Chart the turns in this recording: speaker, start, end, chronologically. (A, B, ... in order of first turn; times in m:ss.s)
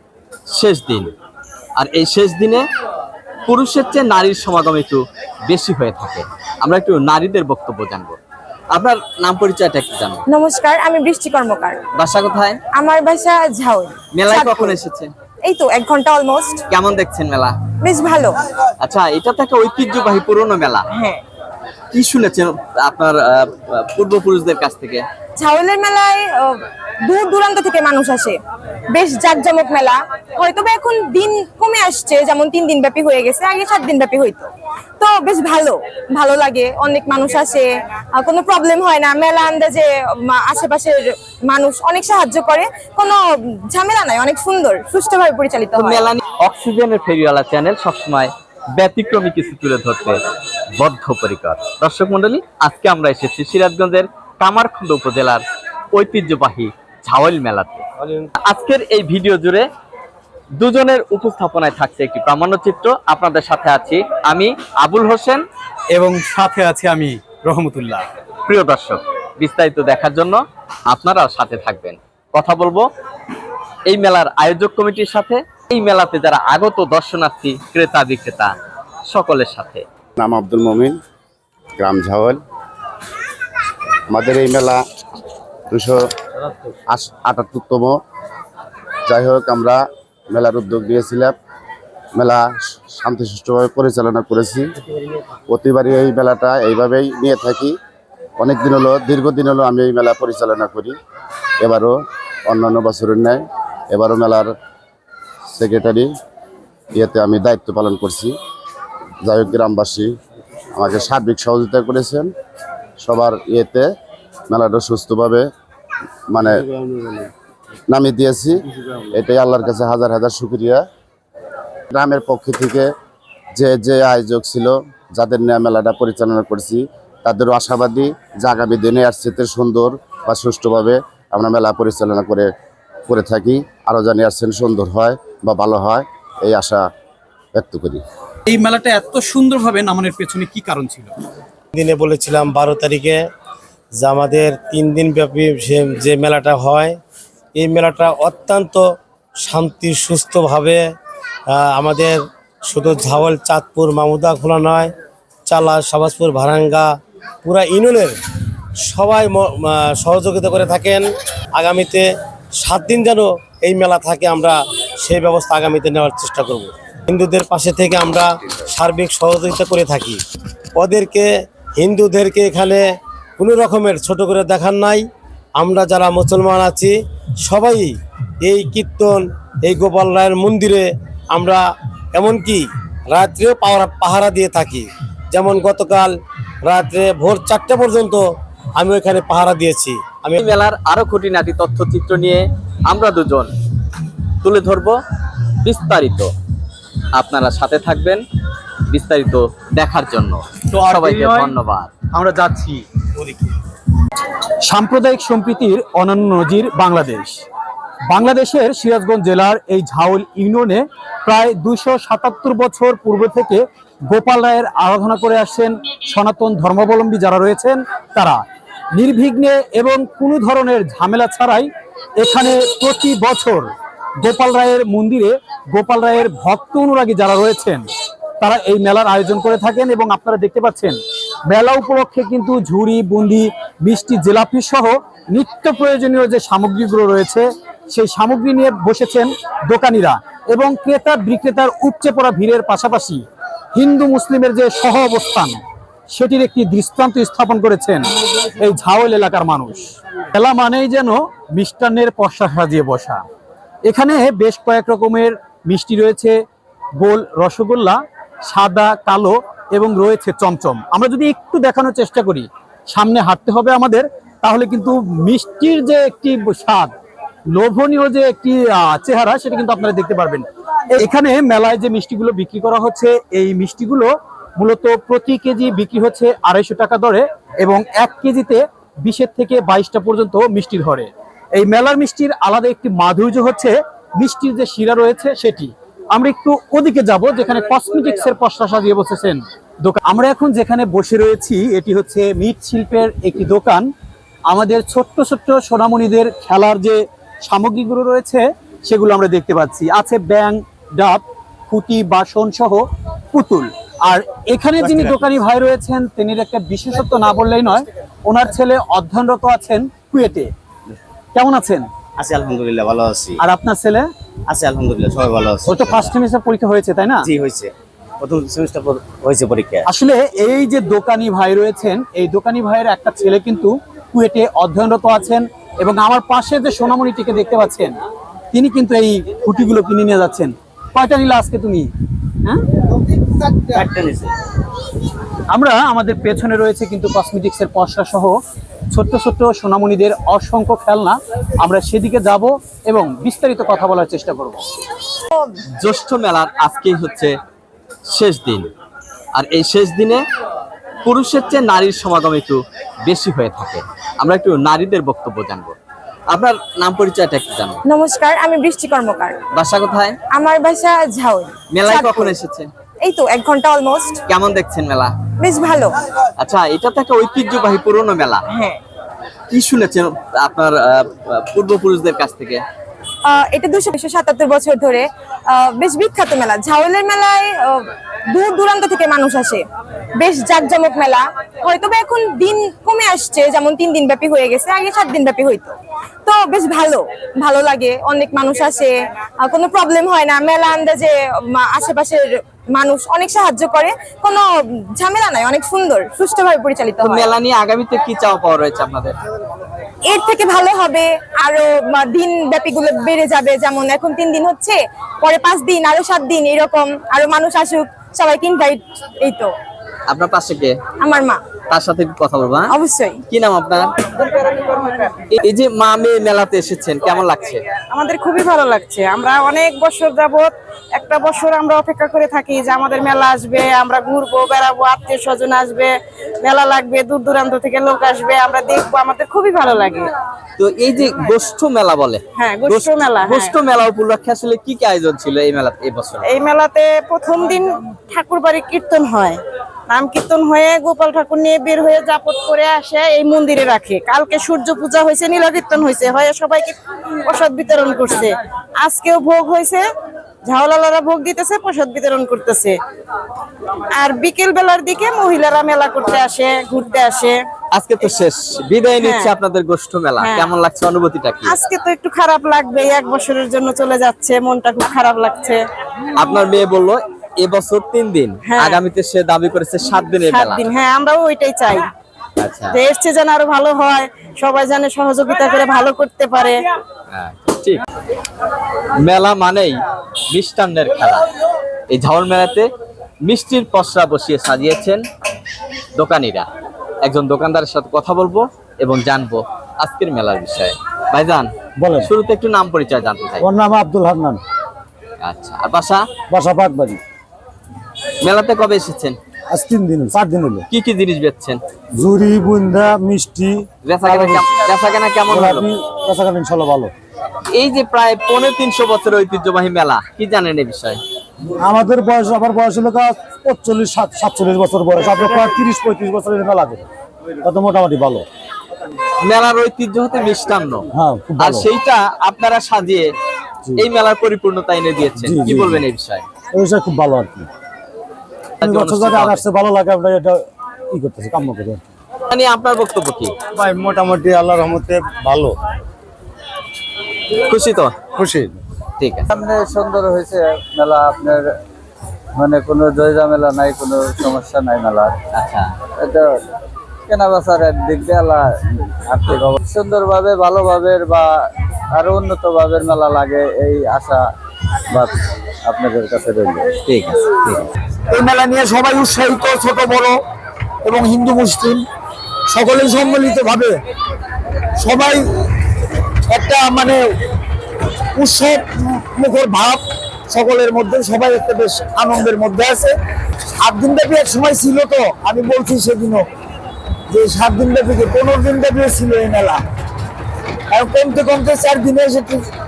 0:00.5-0:01.1 A
0:01.8-0:02.6 A
0:03.5-0:08.2 A
0:08.7-0:10.2 A
0:10.3-0:11.8 B
0:12.0-0:12.6 A
0:12.7-0:14.8 B
0:14.1-0:15.1 A
0:15.4-0:16.6 B
0:16.7-0:17.6 A
0:17.8-0:18.4 B
0:18.8-0:20.9 A
0:20.9-0:21.2 B
0:21.9-0:25.0 A
0:25.4-0:28.4 B
0:28.9-0:34.5 B
0:35.0-0:43.2 B
0:43.7-0:46.1 B
0:45.8-0:50.2 A
0:50.8-0:57.8 A
0:58.4-0:59.6 A
1:00.6-1:05.4 A
1:05.9-1:08.1 C
1:08.5-1:12.8 A
1:13.9-1:18.5 A
1:19.1-1:19.8 A
1:20.2-1:21.0 D
1:21.8-1:22.4 D
1:24.1-1:24.8 D
1:25.7-1:26.0 D
1:26.9-1:28.0 D
1:29.1-1:31.4 D
1:32.2-1:34.6 D
1:35.5-1:37.8 D
1:38.4-1:41.0 D
1:41.6-1:41.9 D
1:42.5-1:44.5 D
1:45.5-1:46.1 D
1:47.0-1:48.3 D
1:49.2-1:50.1 D
1:50.8-1:52.3 D
1:53.0-1:53.9 D
1:54.5-1:55.4 D
1:56.3-1:56.6 D
1:57.9-1:58.6 D
1:59.1-2:00.8 D
2:01.9-2:02.9 D
2:03.6-2:12.5 D
2:13.1-2:16.8 D
2:17.6-2:18.0 D
2:18.5-2:21.1 C
2:21.7-2:23.2 E
2:24.0-2:27.0 E
2:27.6-2:28.8 E
2:29.4-2:30.8 E
2:31.5-2:34.9 E
2:35.5-2:36.9 E
2:37.4-2:38.2 E
2:38.9-2:41.0 E
2:41.6-2:42.1 E
2:42.6-2:50.2 E
2:50.8-2:52.8 E
2:53.4-2:55.0 E
2:55.6-2:56.9 E
2:57.4-3:06.1 E
3:06.6-3:08.2 E
3:08.8-3:10.4 E
3:10.4-3:13.5 A
3:14.4-3:15.0 A
3:15.6-3:16.3 A
3:17.1-3:18.2 A
3:18.9-3:21.9 A
3:20.8-3:21.5 C
3:22.1-3:22.8 C
3:24.7-3:27.4 C
3:28.1-3:38.4 C
3:38.9-3:41.7 C
3:42.2-3:47.8 C
3:48.4-3:51.0 C
3:51.5-4:03.2 C
4:03.8-4:05.6 C
4:06.1-4:08.1 C
4:08.6-4:13.2 C
4:13.9-4:16.4 C
4:17.0-4:26.9 C
4:27.6-4:53.9 C
4:54.5-5:10.5 C
5:04.8-5:05.3 F
5:11.4-5:11.9 C
5:12.2-5:13.4 F
5:13.4-5:14.1 C
5:14.5-5:16.1 F
5:15.7-5:17.3 C
5:17.2-5:19.9 F
5:19.9-5:28.0 C
5:28.5-5:31.9 C
5:35.5-5:38.4 C
5:38.9-5:44.6 C
5:45.8-5:47.3 A
5:48.1-5:48.7 A
5:49.4-5:50.2 A
5:51.0-5:55.8 A
5:56.3-5:57.8 A
5:57.9-5:59.4 B
5:59.5-6:00.2 A
6:00.3-6:02.4 B
6:01.7-6:02.7 A
6:03.0-6:04.2 B
6:04.3-6:05.1 A
6:05.4-6:05.9 B
6:06.4-6:08.4 A
6:08.5-6:08.8 B
6:09.5-6:12.6 A
6:13.3-6:17.8 B
6:18.3-6:19.6 B
6:20.2-6:25.7 B
6:26.3-6:34.4 B
6:35.0-6:37.3 B
6:37.0-6:39.2 A
6:40.1-6:49.5 B
6:50.1-6:50.8 A
6:51.0-6:51.4 B
6:51.7-6:52.7 A
6:52.7-6:53.2 B
6:53.3-6:53.9 A
6:54.2-6:55.1 G
6:55.4-6:57.6 A
6:57.9-7:05.9 G
7:06.4-7:10.1 G
7:10.6-7:16.3 A
7:12.4-7:13.3 G
7:16.3-7:29.8 G
7:30.4-7:32.8 G
7:34.0-7:37.4 G
7:37.7-7:41.6 A
7:40.2-7:40.5 G
7:41.5-7:45.6 G
7:46.2-7:50.7 A
7:50.2-7:51.9 G
7:52.4-7:52.8 A
7:52.8-7:56.6 G
7:57.1-7:57.9 A
7:59.0-7:59.8 A
8:00.3-8:01.2 A
8:01.9-8:02.7 A
8:03.2-8:05.0 A
8:06.0-8:06.5 A
8:07.0-8:11.5 A
8:11.8-8:12.1 H
8:12.0-8:13.5 A
8:13.4-8:14.4 H
8:15.2-8:16.0 A
8:16.3-8:17.0 H
8:18.2-8:19.2 A
8:19.5-8:20.6 H
8:20.7-8:21.6 A
8:22.0-8:24.4 H
8:23.9-8:25.7 A
8:25.3-8:26.9 H
8:27.5-8:31.0 A
8:31.6-8:36.9 H
8:37.4-8:38.2 H
8:39.2-8:40.8 A
8:40.9-8:41.7 H
8:41.4-8:43.1 A
8:43.8-8:46.2 A
8:45.2-8:45.8 H
8:46.5-8:47.5 H
8:48.6-8:49.4 A
8:48.6-8:51.8 H
8:52.3-8:53.4 A
8:53.7-8:55.4 E
8:57.5-8:57.9 A
8:59.0-8:59.3 A
8:59.3-9:01.5 I
9:02.4-9:05.1 I
9:05.3-9:05.7 A
9:06.0-9:06.3 I
9:07.1-9:08.5 I
9:09.1-9:11.4 I
9:12.0-9:14.3 I
9:14.9-9:16.7 I
9:16.9-9:17.7 A
9:18.1-9:20.1 J
9:20.8-9:21.8 J
9:22.5-9:23.8 J
9:24.8-9:25.2 J
9:26.3-9:27.0 J
9:28.2-9:32.9 J
9:33.6-9:36.2 J
9:37.1-9:39.6 J
9:40.7-9:42.4 J